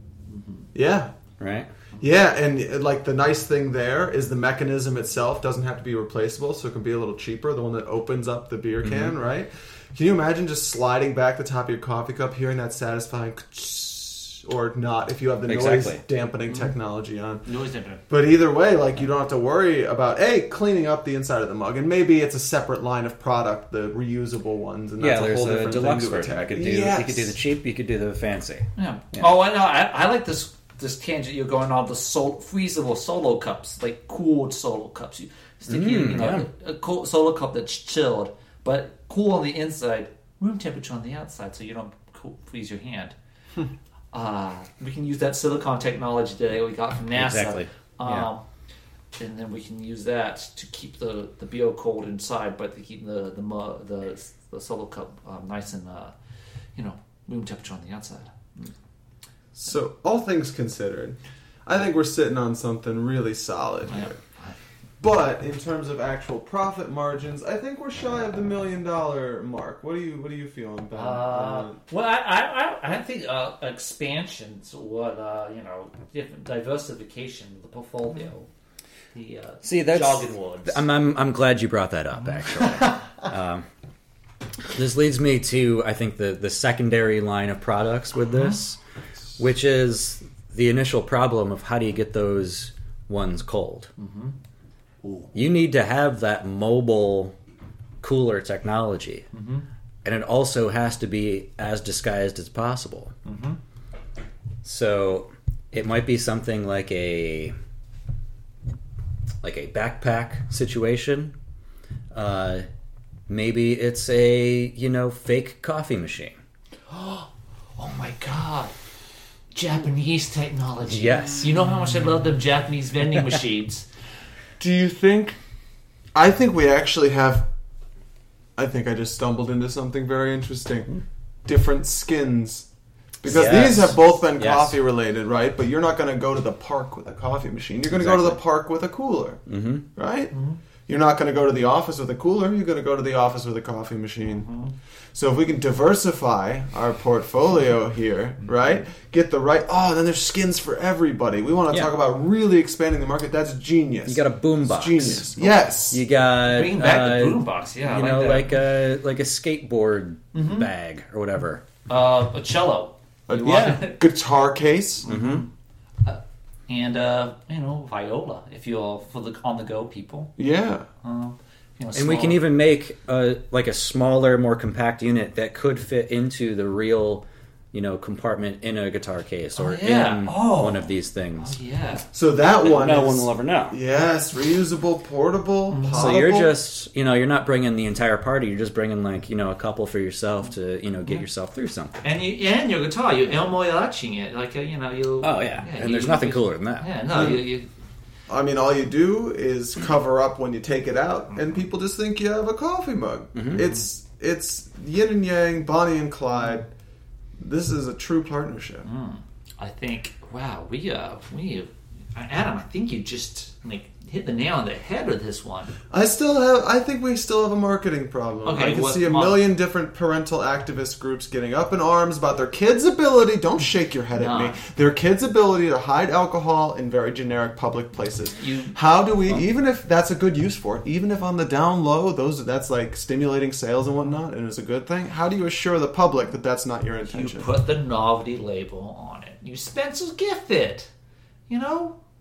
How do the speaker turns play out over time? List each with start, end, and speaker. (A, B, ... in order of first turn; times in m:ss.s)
0:00.3-0:00.6 A
0:00.7-0:01.1 B
0:01.4-0:01.7 C
0:02.0-0:17.4 B
0:08.8-0:09.1 C
0:15.5-0:16.0 C
0:16.5-0:16.7 A
0:17.4-0:18.0 A
0:18.1-0:27.3 B
0:25.0-0:29.3 C
0:28.8-0:43.2 A
0:35.7-0:36.5 C
0:44.1-0:48.4 A
0:47.1-0:48.3 C
0:49.2-0:56.1 A
0:56.8-0:58.7 A
0:59.5-1:04.2 B
1:03.9-1:04.6 A
1:05.0-1:11.8 B
1:10.9-1:18.5 A
1:19.1-1:20.8 A
1:19.6-1:23.6 C
1:24.7-1:28.8 C
1:29.4-1:33.9 C
1:34.0-1:34.3 A
1:35.0-1:35.3 A
1:35.3-1:37.4 C
1:38.0-1:39.3 C
1:39.3-1:39.6 A
1:40.0-1:43.1 C
1:43.2-1:43.6 A
1:44.6-1:47.5 C
1:49.4-1:51.3 C
1:52.1-1:52.6 C
1:53.3-1:56.4 C
1:56.9-1:58.7 A
1:59.5-2:03.9 A
2:00.9-2:01.6 C
2:04.6-2:05.4 B
2:06.1-2:07.5 B
2:08.6-2:10.9 B
2:11.4-2:12.7 B
2:13.2-2:19.4 B
2:13.2-2:14.8 C
2:17.9-2:18.4 C
2:19.5-2:19.8 C
2:20.0-2:20.3 B
2:20.3-2:20.6 A
2:20.9-2:24.5 B
2:24.3-2:24.7 A
2:25.1-2:36.0 B
2:34.1-2:41.6 C
2:36.4-2:38.6 A
2:40.3-2:40.7 A
2:41.9-2:44.0 A
2:43.3-2:45.0 B
2:43.4-2:43.8 C
2:45.0-2:45.5 A
2:45.0-2:45.4 C
2:46.0-2:50.3 A
2:50.4-2:50.8 B
2:51.0-2:52.4 A
2:51.9-3:01.6 C
2:59.6-3:02.1 A
3:02.1-3:06.5 B
3:02.6-3:03.8 C
3:05.7-3:06.1 A
3:05.9-3:12.0 C
3:12.0-3:17.7 A
3:15.2-3:17.2 C
3:17.1-3:17.4 B
3:18.3-3:26.7 B
3:23.3-3:23.7 C
3:27.4-3:28.9 B
3:28.8-3:35.7 A
3:35.9-3:57.5 B
3:38.4-3:39.4 A
3:44.2-3:44.6 A
3:48.4-3:48.7 A
3:57.0-4:00.9 A
4:01.5-4:02.0 A